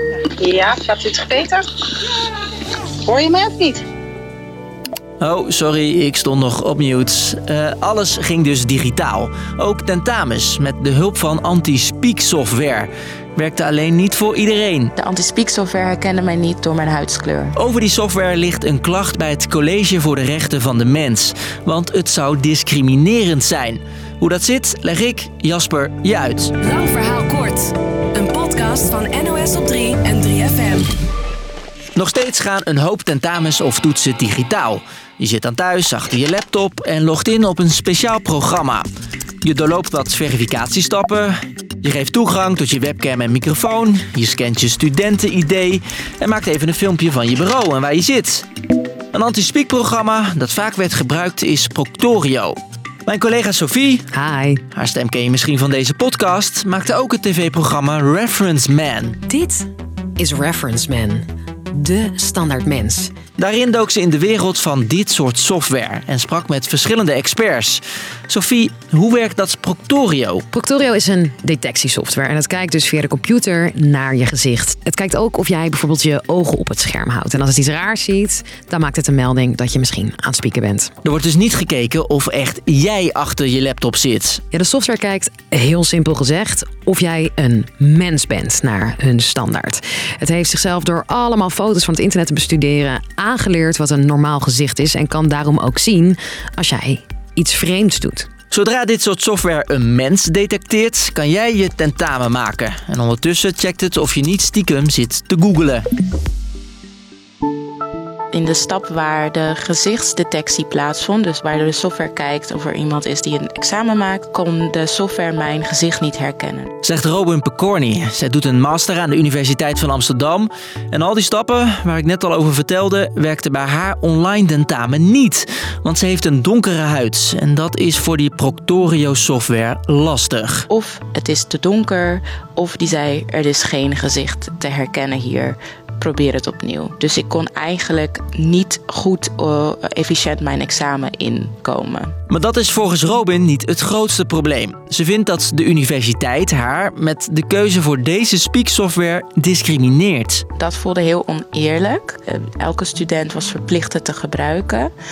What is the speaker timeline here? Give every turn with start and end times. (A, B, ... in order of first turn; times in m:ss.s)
0:00.4-0:01.7 A
0:03.0-0:03.8 A
0:05.2-0:14.9 B
0:15.0-0:17.6 C
0:17.6-0:26.5 B
0:26.6-0:27.6 D
0:26.7-0:27.6 E
0:28.1-0:30.9 D
0:28.2-0:30.7 E
0:32.0-0:38.9 B
0:39.4-0:48.4 B
0:49.1-0:54.0 B
0:54.1-0:54.6 E
0:54.7-0:59.2 B
0:59.3-1:03.1 E
1:03.4-1:10.4 B
1:10.5-1:20.9 E
1:21.0-1:24.4 B
1:24.5-1:38.3 E
1:38.5-1:45.9 B
1:48.3-1:56.7 C
1:56.8-2:10.7 B
2:10.7-2:22.1 C
2:22.3-2:30.4 B
2:30.6-2:34.9 C